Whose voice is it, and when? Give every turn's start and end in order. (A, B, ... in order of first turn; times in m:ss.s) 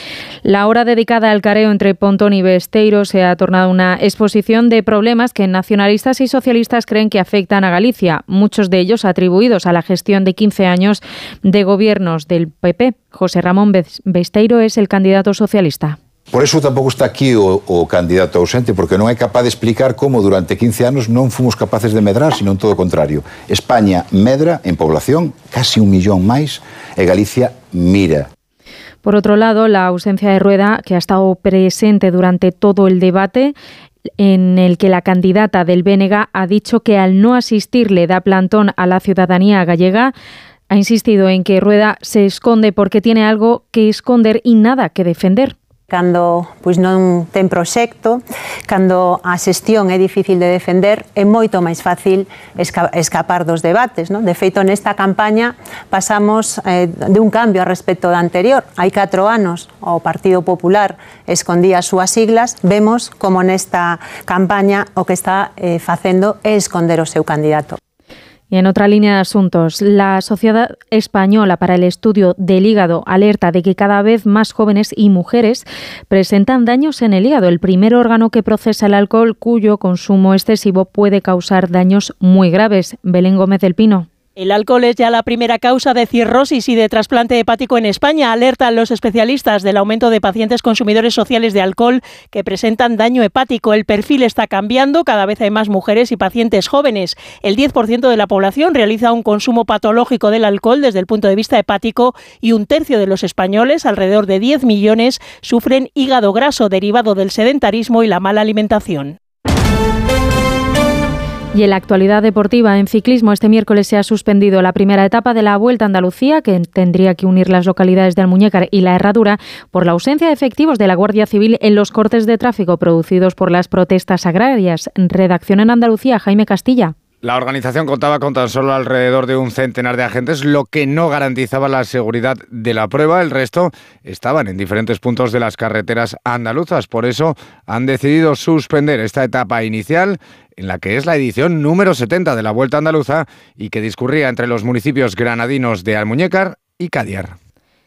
0:00.4-0:16.0 A
0:16.3-0:28.3 B
0:29.0-0:33.5 A
0:34.2-0:40.1 A
0:40.7-0:45.6 A
0:45.9-1:07.8 C
1:08.5-1:24.1 A
1:24.4-1:49.2 D
1:51.5-2:07.0 A
2:07.2-2:27.4 E